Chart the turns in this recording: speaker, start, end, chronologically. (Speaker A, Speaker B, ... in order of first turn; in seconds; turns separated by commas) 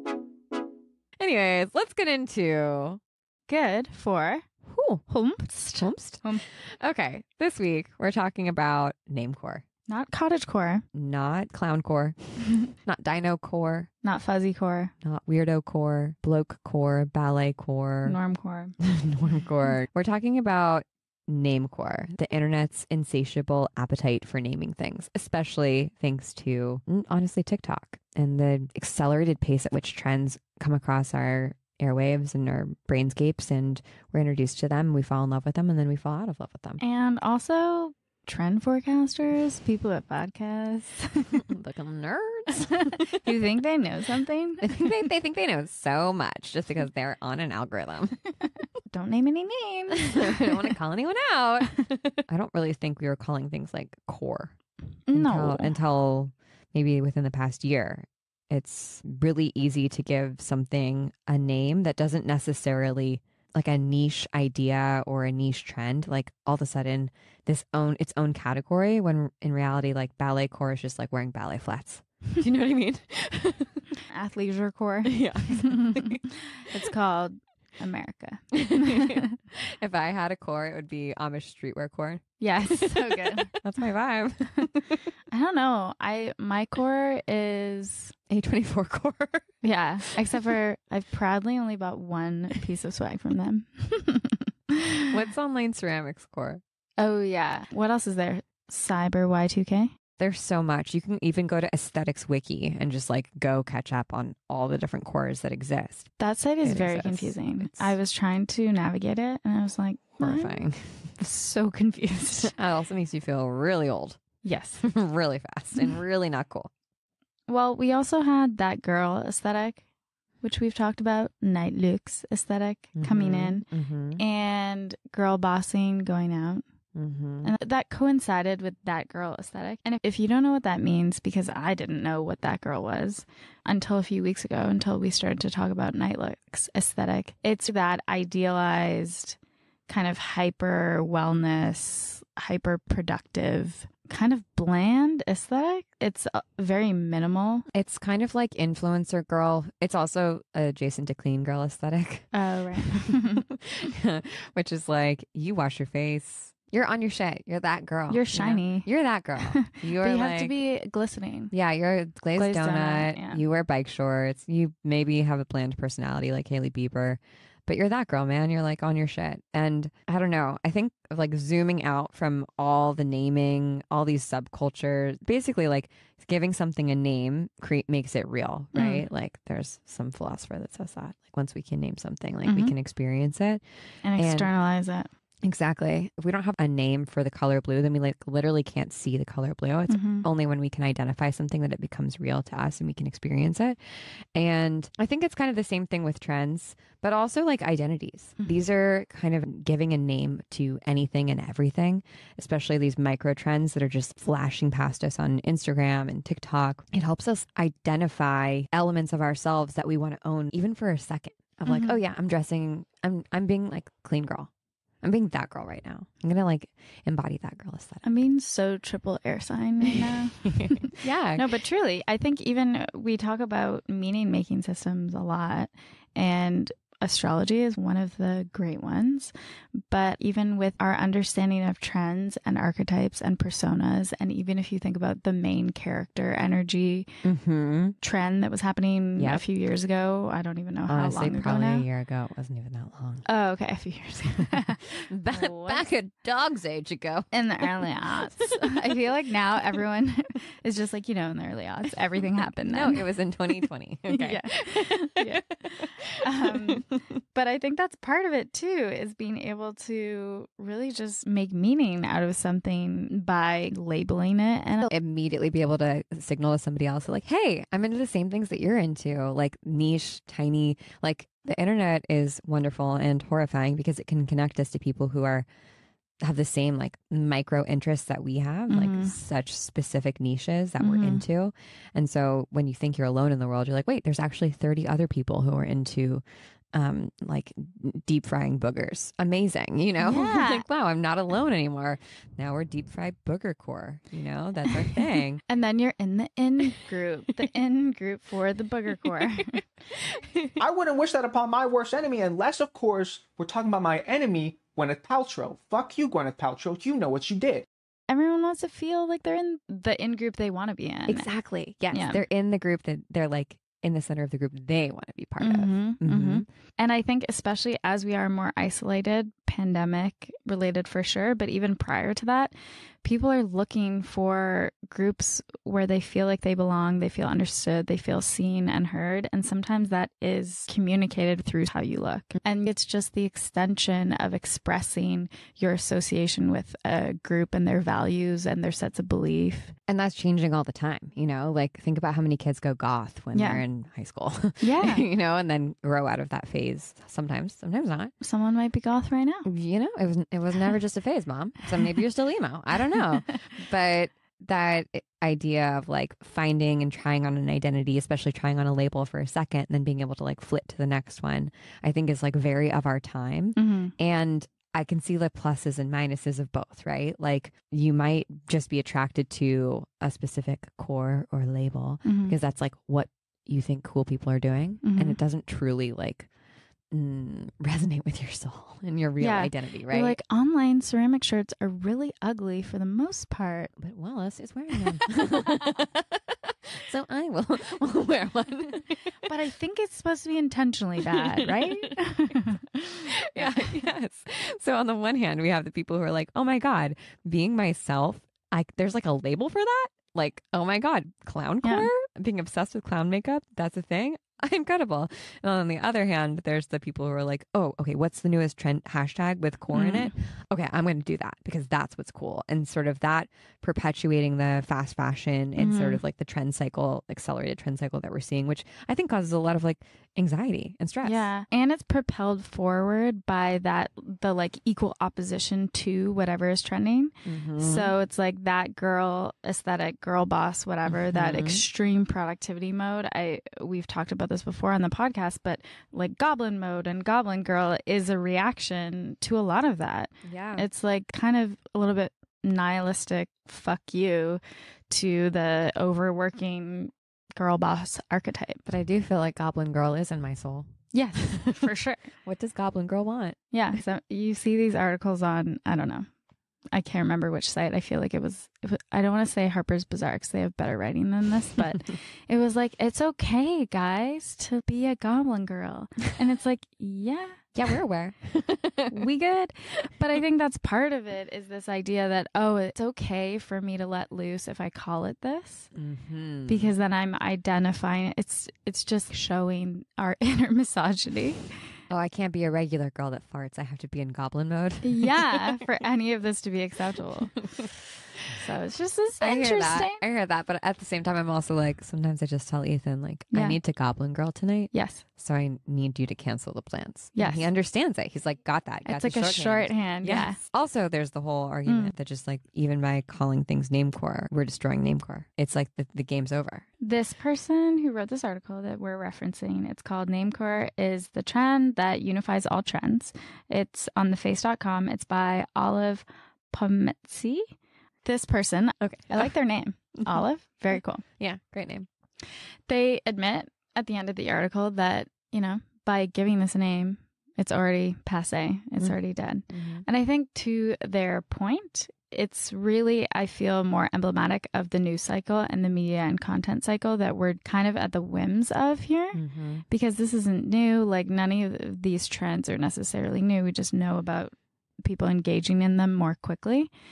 Speaker A: 1.2-3.0, Speaker B: 3.5-4.4, Speaker A: 4.7-5.0, Speaker B: 5.1-6.4, Speaker A: 5.8-9.6, Speaker B: 9.9-10.8, Speaker A: 10.9-13.9, Speaker B: 14.0-14.9, Speaker A: 15.0-18.2, Speaker B: 18.1-18.7, Speaker A: 18.8-36.8, Speaker B: 36.8-41.3, Speaker A: 41.4-43.2, Speaker B: 43.1-44.8, Speaker A: 44.6-48.3, Speaker B: 48.9-50.6, Speaker A: 50.1-54.5, Speaker B: 55.1-55.7, Speaker A: 55.1-73.8, Speaker B: 74.1-76.0, Speaker A: 75.1-76.2, Speaker B: 76.6-79.3, Speaker A: 78.5-85.0, Speaker B: 82.4-83.6, Speaker B: 85.3-88.1, Speaker A: 88.3-89.5, Speaker B: 89.6-95.0, Speaker A: 95.1-96.6, Speaker B: 97.0-99.9, Speaker A: 100.2-107.9, Speaker B: 106.2-112.5, Speaker A: 110.2-111.1, Speaker A: 112.5-114.2, Speaker B: 114.4-114.8, Speaker A: 114.8-116.7, Speaker B: 117.5-119.8, Speaker B: 120.4-123.7, Speaker A: 123.0-124.2, Speaker B: 124.2-126.6, Speaker A: 126.9-127.5, Speaker B: 127.4-139.4, Speaker B: 139.9-147.6, Speaker A: 147.7-152.3, Speaker B: 152.3-153.4, Speaker A: 153.0-160.5, Speaker B: 158.1-161.5, Speaker A: 161.5-183.6, Speaker B: 162.3-163.4, Speaker B: 178.7-179.0, Speaker B: 182.4-182.7, Speaker B: 184.0-185.1, Speaker A: 184.2-184.5, Speaker A: 185.4-214.5, Speaker B: 189.9-190.2, Speaker B: 211.7-212.0, Speaker A: 215.0-218.1, Speaker B: 218.0-229.3, Speaker A: 220.6-221.4, Speaker B: 229.9-237.1, Speaker A: 237.2-237.9, Speaker B: 238.0-241.8, Speaker A: 239.2-239.4, Speaker A: 240.9-243.2, Speaker B: 243.2-245.8, Speaker A: 245.1-247.3, Speaker B: 247.3-253.1, Speaker A: 252.7-257.0, Speaker B: 254.1-264.9, Speaker A: 264.9-275.4, Speaker A: 276.2-295.4, Speaker B: 278.7-279.1, Speaker B: 280.8-281.2, Speaker B: 290.0-290.6, Speaker B: 295.5-299.6, Speaker A: 300.1-300.6, Speaker C: 300.6-307.6, Speaker B: 308.1-311.3, Speaker A: 311.1-316.4, Speaker B: 311.9-312.2, Speaker B: 315.4-339.7, Speaker A: 339.9-348.1, Speaker B: 343.3-343.6, Speaker B: 344.6-345.0, Speaker B: 348.2-349.4, Speaker A: 349.4-376.3, Speaker B: 353.1-353.4, Speaker B: 363.6-363.9, Speaker B: 372.0-372.3, Speaker B: 374.8-375.2, Speaker A: 376.9-380.2, Speaker B: 379.2-383.7, Speaker A: 383.8-389.1, Speaker B: 389.2-393.7, Speaker A: 391.1-391.9, Speaker A: 393.1-421.3, Speaker B: 401.6-401.9, Speaker B: 409.7-410.1, Speaker B: 415.6-416.0, Speaker B: 421.0-448.6, Speaker A: 427.2-427.9, Speaker A: 430.9-431.6, Speaker A: 440.2-440.6, Speaker A: 448.6-450.7, Speaker B: 450.9-452.1, Speaker A: 452.2-453.4, Speaker B: 453.5-456.1, Speaker B: 456.7-467.5, Speaker A: 467.5-468.9, Speaker B: 468.9-475.7, Speaker A: 475.7-476.7, Speaker B: 476.5-481.5, Speaker A: 481.9-485.1, Speaker B: 484.8-487.6, Speaker B: 488.3-490.0, Speaker A: 489.2-506.6, Speaker B: 493.3-493.6, Speaker B: 494.7-495.0, Speaker B: 497.1-497.4, Speaker B: 498.8-500.4, Speaker B: 501.6-501.9, Speaker B: 506.8-517.5, Speaker B: 518.0-521.0, Speaker A: 518.8-519.3, Speaker A: 521.2-521.9, Speaker B: 522.7-546.7, Speaker A: 529.5-529.8, Speaker A: 539.1-539.6